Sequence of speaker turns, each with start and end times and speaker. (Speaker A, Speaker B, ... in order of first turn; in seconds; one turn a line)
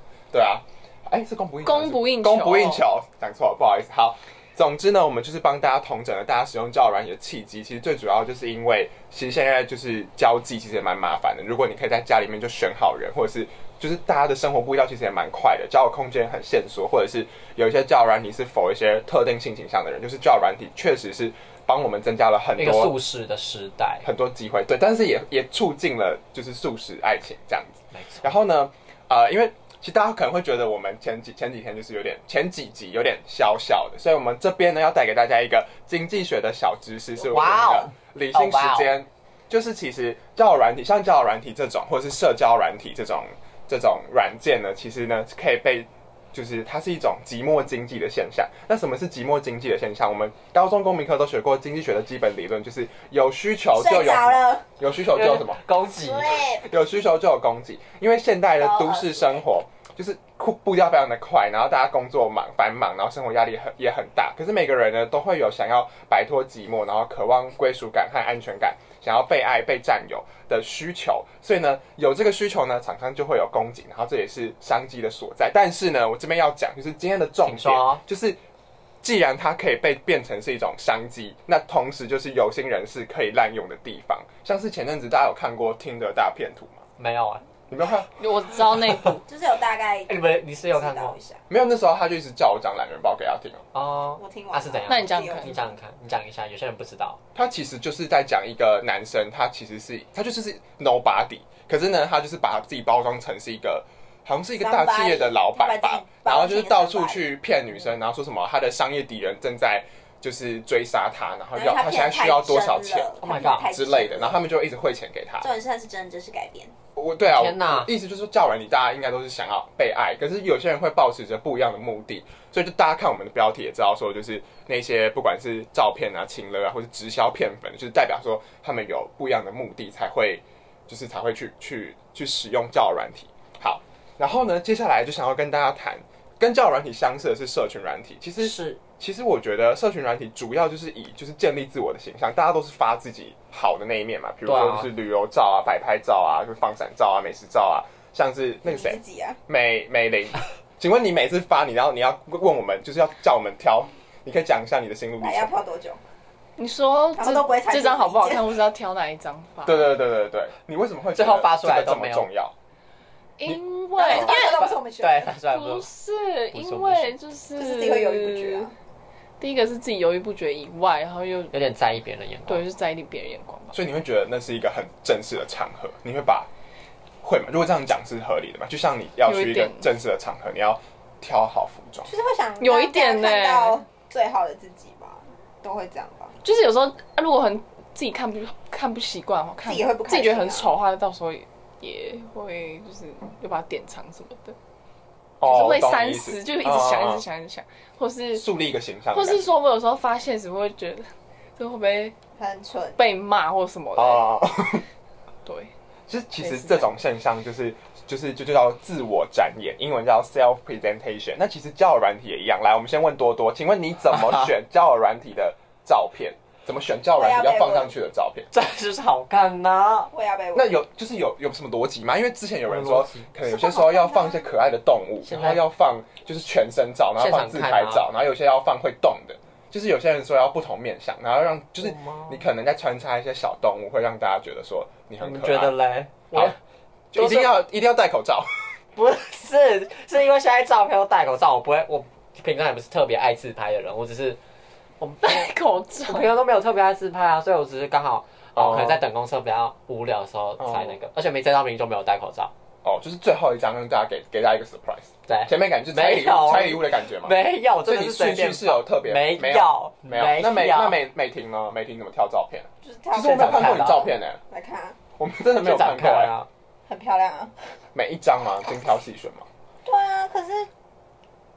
Speaker A: 0.3-22.9
Speaker B: 1.6-2.8
Speaker C: 22.6-24.1
Speaker A: 24.0-55.6
Speaker C: 27.9-28.3
Speaker C: 37.3-39.0
Speaker D: 53.7-54.7
Speaker C: 55.1-56.4
Speaker D: 56.0-56.7
Speaker A: 56.5-78.4
Speaker D: 58.6-59.4
Speaker C: 77.4-78.0
Speaker A: 79.0-86.8
Speaker C: 87.0-87.5
Speaker A: 87.7-88.1
Speaker B: 88.2-89.2
Speaker D: 89.2-90.2
Speaker C: 90.1-91.2
Speaker D: 90.7-91.4
Speaker A: 91.5-93.6
Speaker C: 93.7-97.2
Speaker D: 94.2-95.7
Speaker B: 94.9-95.5
Speaker A: 97.3-115.5
Speaker D: 104.6-107.3
Speaker D: 111.5-114.4
Speaker C: 113.2-113.7
Speaker D: 115.4-116.7
Speaker A: 117.0-155.6
Speaker C: 117.3-117.9
Speaker C: 138.4-138.8
Speaker C: 144.4-144.9
Speaker D: 148.6-149.4
Speaker D: 155.2-156.0
Speaker B: 156.6-159.9
Speaker D: 157.2-158.5
Speaker A: 159.6-162.6
Speaker C: 161.1-162.3
Speaker B: 163.4-164.7
Speaker D: 164.0-165.3
Speaker C: 164.0-165.9
Speaker B: 165.5-168.7
Speaker C: 166.5-167.2
Speaker D: 167.6-168.7
Speaker B: 169.4-171.5
Speaker C: 171.5-172.6
Speaker B: 172.5-173.7
Speaker A: 173.7-176.5
Speaker A: 177.2-182.1
Speaker B: 179.3-179.9
Speaker D: 182.1-186.3
Speaker B: 182.6-183.9
Speaker B: 186.4-194.6
Speaker D: 189.6-190.7
Speaker A: 195.4-197.2
Speaker B: 195.4-198.5
Speaker A: 198.3-199.5
Speaker B: 199.1-202.2
Speaker D: 202.4-203.0
Speaker B: 203.0-204.3
Speaker A: 203.9-204.9
Speaker B: 205.5-205.7
Speaker A: 206.1-218.5
Speaker B: 206.4-206.9
Speaker C: 214.1-214.5
Speaker D: 217.2-217.9
Speaker C: 218.5-220.1
Speaker D: 220.1-220.8
Speaker A: 220.5-235.7
Speaker C: 222.7-223.3
Speaker D: 223.5-224.5
Speaker C: 225.2-225.6
Speaker C: 227.2-228.1
Speaker C: 231.8-232.4
Speaker C: 235.2-236.6
Speaker A: 237.1-238.8
Speaker C: 237.2-237.5
Speaker C: 239.0-244.4
Speaker C: 245.0-245.5
Speaker B: 245.2-246.3
Speaker C: 246.1-252.5
Speaker A: 248.6-249.0
Speaker A: 250.6-251.0
Speaker A: 252.8-264.4
Speaker C: 255.3-261.0
Speaker D: 262.8-265.0
Speaker C: 263.2-264.1
Speaker A: 265.2-266.3
Speaker C: 265.6-266.5
Speaker D: 266.9-267.6
Speaker A: 267.9-269.5
Speaker D: 269.8-270.7